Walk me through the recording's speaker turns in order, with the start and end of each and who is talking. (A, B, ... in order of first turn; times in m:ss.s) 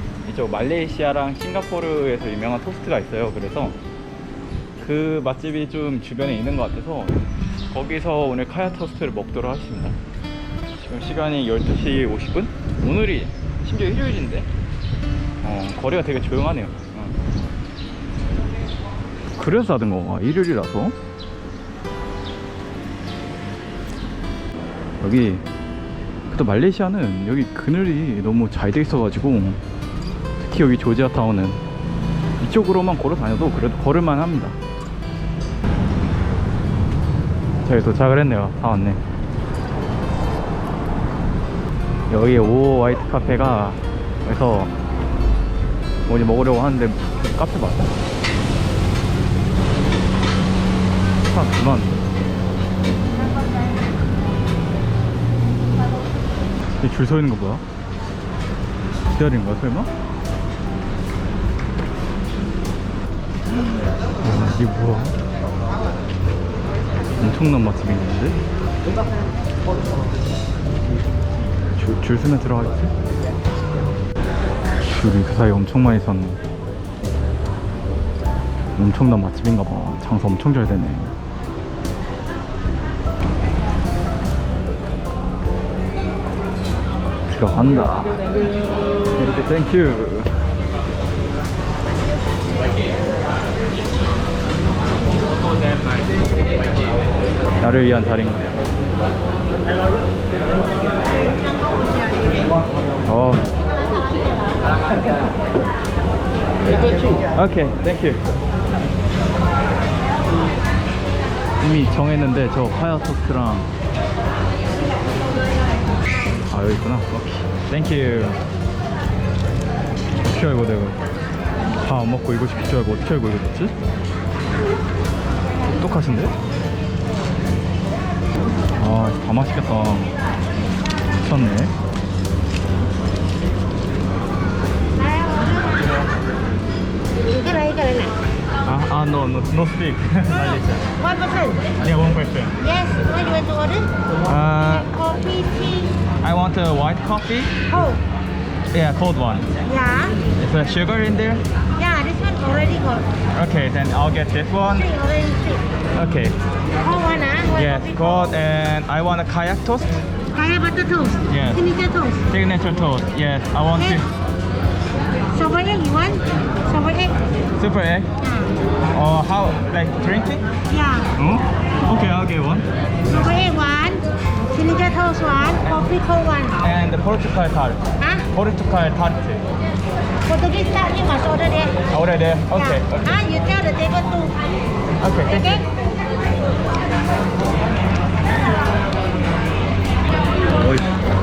0:00.2-0:03.8 A
0:04.8-0:10.0 A
0:10.8-0:14.5 A
0:15.4-0:17.2 A
0:19.4-0:20.9 A
0:25.0-0:25.4 A
0:26.3-0:29.6 A
0:30.4-0:31.6 A
0:32.4-0:34.6 A
0:37.6-0:39.0 A
0:42.1-0:44.7 A
0:46.0-0:47.9 A
0:51.2-0:52.0 A
0:56.8-0:57.6 A
0:59.1-0:59.9 A
1:03.5-1:05.2 A
1:07.2-1:08.4 A
1:11.8-1:12.9 A
1:14.8-1:16.4 A
1:18.8-1:21.1 A
1:27.3-1:28.2 A
1:29.2-1:30.3 A
1:37.6-1:38.5 A
1:43.0-1:43.4 A
1:47.3-1:48.2 A
1:51.6-1:53.7 A
1:56.5-1:58.4 A
2:00.2-2:01.0 A
2:01.8-2:03.7 A
2:05.7-2:06.3 A
2:08.7-2:10.1 A
2:11.2-2:11.7 A
2:15.0-2:15.9 B
2:17.3-2:18.2 B
2:18.6-2:20.9 A
2:21.0-2:21.7 B
2:21.8-2:22.6 A
2:22.6-2:23.9 B
2:24.2-2:25.0 A
2:24.8-2:25.9 B
2:26.2-2:27.6 A
2:27.7-2:28.0 B
2:28.7-2:29.6 A
2:29.6-2:30.2 B
2:30.3-2:31.4 A
2:31.8-2:33.1 B
2:33.3-2:34.9 A
2:34.8-2:35.6 B
2:35.9-2:36.4 A
2:36.8-2:38.3 B
2:37.5-2:40.0 A
2:40.3-2:42.2 B
2:41.3-2:41.7 A
2:42.2-2:44.1 A
2:45.3-2:47.1 B
2:47.6-2:48.1 A
2:48.2-2:48.6 B
2:48.9-2:50.5 A
2:50.7-2:51.1 B
2:51.2-2:52.7 A
2:53.1-2:56.6 B
2:56.5-2:59.4 A
2:58.0-2:58.3 B
3:00.2-3:01.8 B
3:01.9-3:03.2 A
3:02.6-3:04.4 B
3:05.0-3:05.5 A
3:05.3-3:05.7 B
3:10.6-3:10.9 A